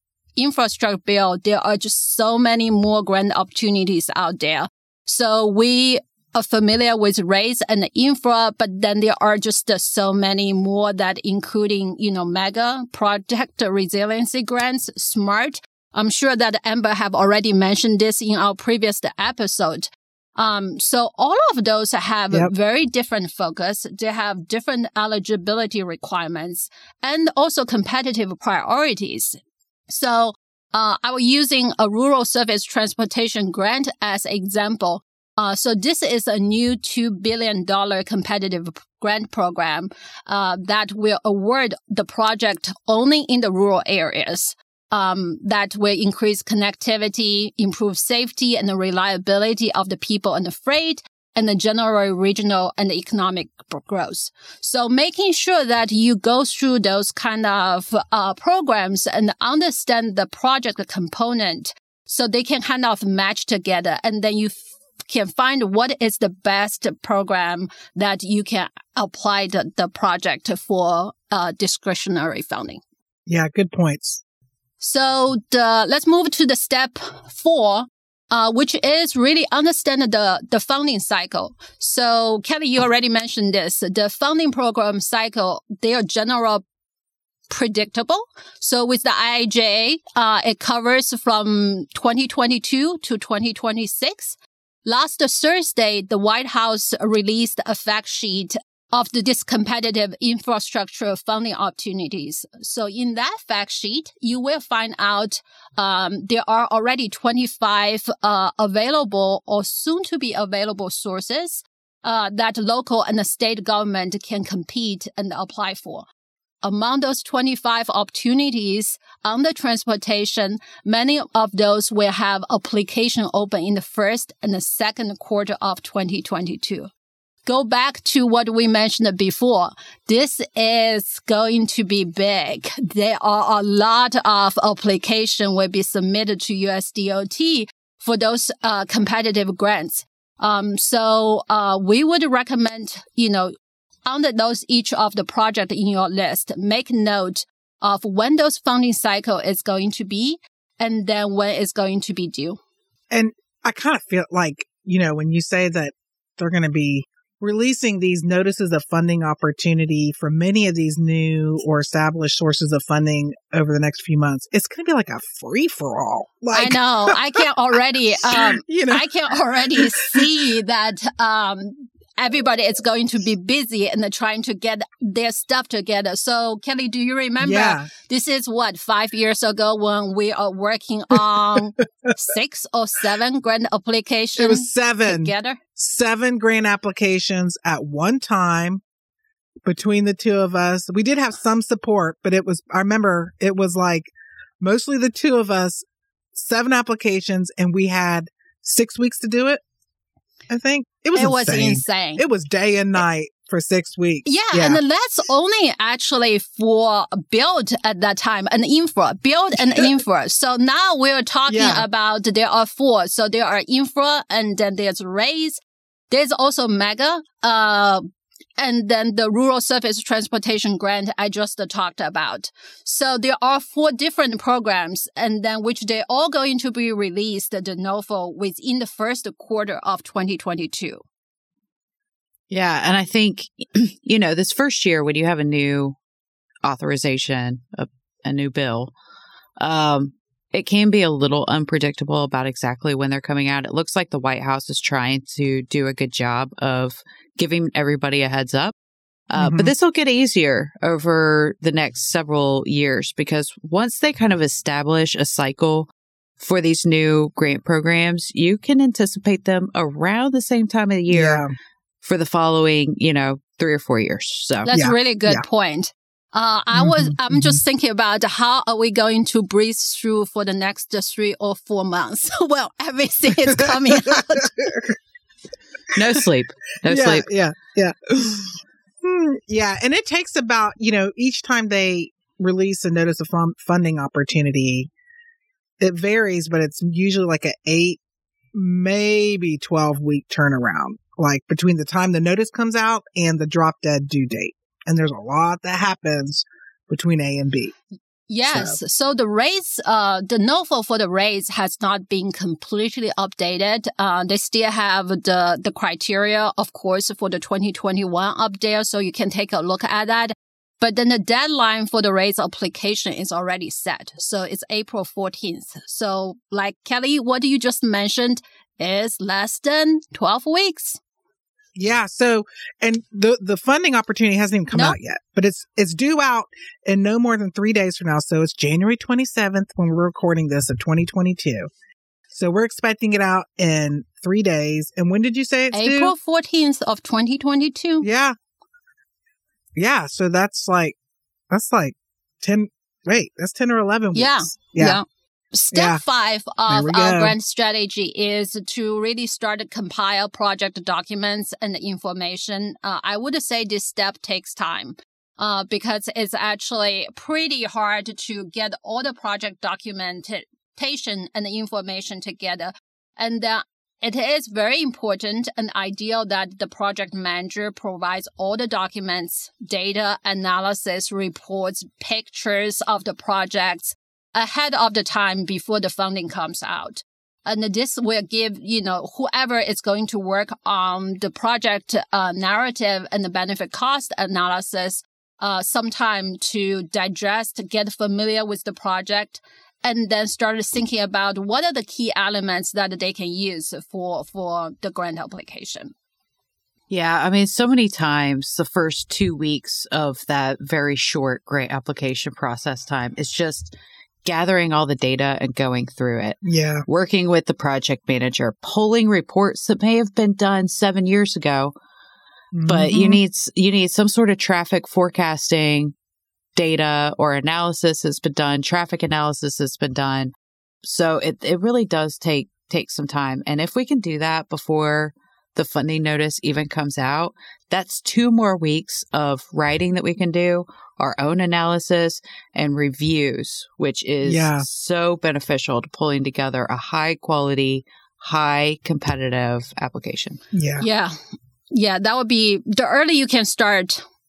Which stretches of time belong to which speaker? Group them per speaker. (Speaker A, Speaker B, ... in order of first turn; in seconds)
Speaker A: 0.4-72.8, 74.8-86.6, 87.5-116.0, 116.6-126.9, 127.5-143.5, 144.1-152.6, 166.5-185.6, 201.1-202.2, 204.2-218.0, 218.6-231.0, 264.6-274.5, 298.3-321.0, 335.7-338.1, 344.1-395.9, 440.8-441.1, 441.7-444.0
Speaker B: 73.2-74.2, 153.1-167.2, 168.3-169.1, 169.7-170.3, 177.4-177.9, 184.4-188.8, 189.6-199.6, 200.5-204.8, 211.5-211.9, 249.4-249.7, 261.1-261.5, 264.7-265.4, 266.7-267.6, 273.4-274.9, 276.9-284.9, 285.8-288.0, 288.5-297.7, 298.4-298.8, 321.7-331.7, 332.3-336.1, 338.0-338.3, 339.8-340.9, 341.5-345.0, 345.7-346.0, 346.7-347.3, 406.4-406.8, 412.5-413.2, 434.2-434.6, 440.5-440.8
Speaker C: 232.5-236.0, 236.6-238.9, 239.6-248.7, 249.3-261.4, 262.0-264.7, 275.9-277.3, 396.9-403.7, 404.2-411.7, 412.6-415.9, 416.6-420.3, 420.8-440.4